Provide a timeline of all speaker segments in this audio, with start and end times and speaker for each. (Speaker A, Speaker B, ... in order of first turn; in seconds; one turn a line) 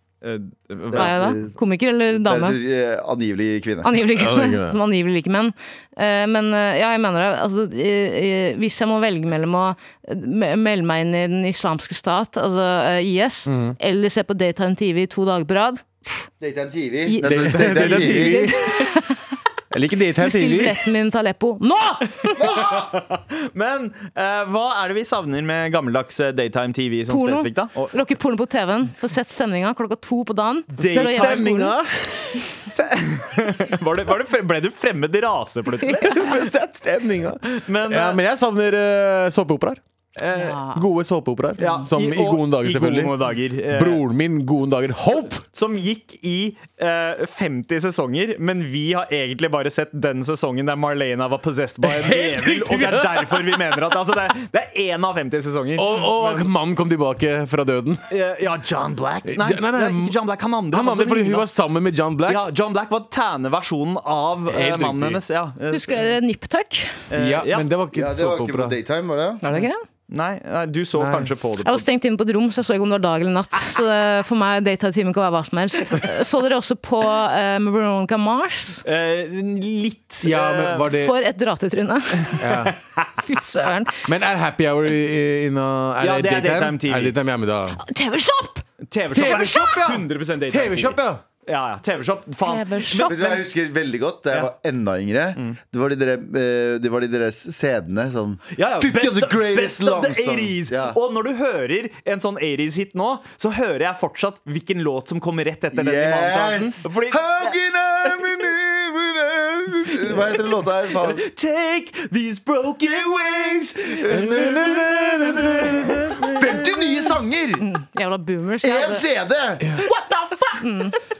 Speaker A: 0.2-1.3
Speaker B: 0.9-1.5
Speaker C: 0.9-2.6
Speaker B: 2.1-3.9
Speaker C: 3.8-16.3
Speaker D: 4.2-4.8
Speaker D: 13.5-13.8
Speaker B: 16.4-18.5
Speaker C: 17.1-19.2
Speaker D: 17.2-18.6
Speaker D: 19.7-20.8
Speaker C: 20.2-22.5
Speaker B: 22.4-22.9
Speaker A: 22.4-28.0
Speaker C: 27.1-31.8
Speaker A: 30.8-31.5
Speaker D: 30.8-32.6
Speaker A: 32.7-36.3
Speaker D: 36.0-39.8
Speaker A: 37.6-38.2
Speaker A: 40.2-40.6
Speaker C: 40.3-40.9
Speaker D: 40.7-43.1
Speaker C: 41.6-41.8
Speaker A: 41.6-44.0
Speaker D: 43.7-45.4
Speaker A: 45.5-56.5
Speaker D: 51.8-53.8
Speaker D: 55.8-58.1
Speaker A: 58.1-61.5
Speaker D: 59.3-60.2
Speaker D: 60.7-62.5
Speaker A: 62.3-66.1
Speaker D: 64.5-65.2
Speaker C: 65.7-67.0
Speaker A: 67.1-67.7
Speaker D: 67.1-68.8
Speaker B: 67.9-69.4
Speaker C: 69.4-69.8
Speaker A: 70.1-71.8
Speaker D: 71.0-71.3
Speaker C: 71.6-78.8
Speaker A: 78.8-80.9
Speaker D: 80.2-81.2
Speaker C: 80.9-82.5
Speaker D: 82.4-82.8
Speaker C: 83.2-84.0
Speaker D: 84.1-87.8
Speaker A: 86.0-87.2
Speaker C: 87.8-88.6
Speaker A: 88.9-93.4
Speaker D: 89.1-91.2
Speaker C: 92.5-93.4
Speaker B: 93.0-101.0
Speaker A: 98.5-107.5
Speaker B: 105.7-111.2
Speaker A: 111.0-116.1
Speaker D: 114.1-116.3
Speaker B: 116.2-117.6
Speaker C: 117.6-119.0
Speaker B: 118.6-119.7
Speaker A: 119.8-120.6
Speaker C: 120.6-121.0